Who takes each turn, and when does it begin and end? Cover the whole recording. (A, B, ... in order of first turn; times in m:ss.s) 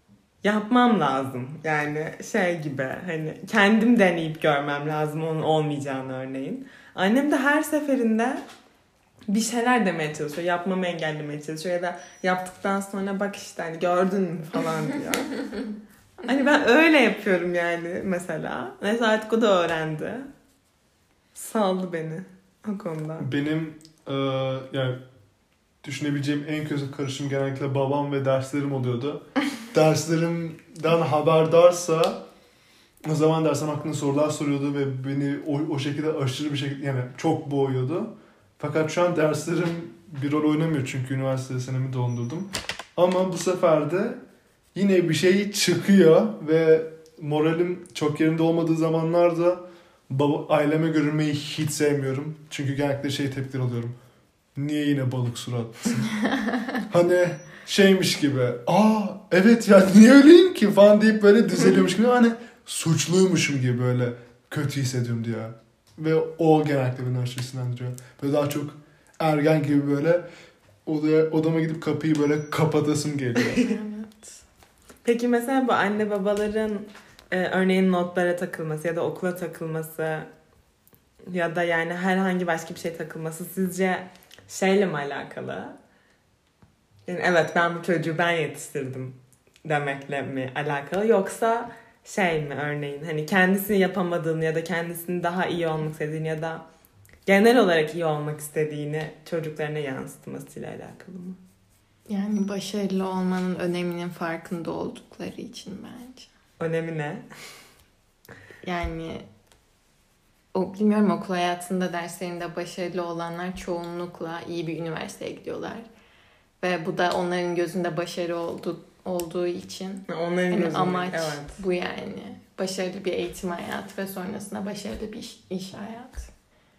0:00.4-0:08.4 A
0:09.3-0:15.4 A
0:16.2-0:20.3 A
0:21.3-0:23.3 A
0:23.2-0:25.0 B
0:25.8-0:32.2 B
0:33.0-0:44.2 B
0:44.7-0:54.0 B
0:54.5-0:56.1 B
0:56.2-0:56.6 C
0:56.9-1:10.2 B
1:10.8-1:13.6 B
1:13.6-1:14.4 C
1:15.0-1:20.3 A
1:21.3-1:25.8 A
1:27.0-1:36.6 A
1:37.2-1:41.4 A
1:42.1-1:46.3 C
1:46.6-1:47.2 A
1:48.6-1:49.2 C
1:50.5-1:55.9 C
1:56.6-2:06.3 C
2:00.1-2:01.6 A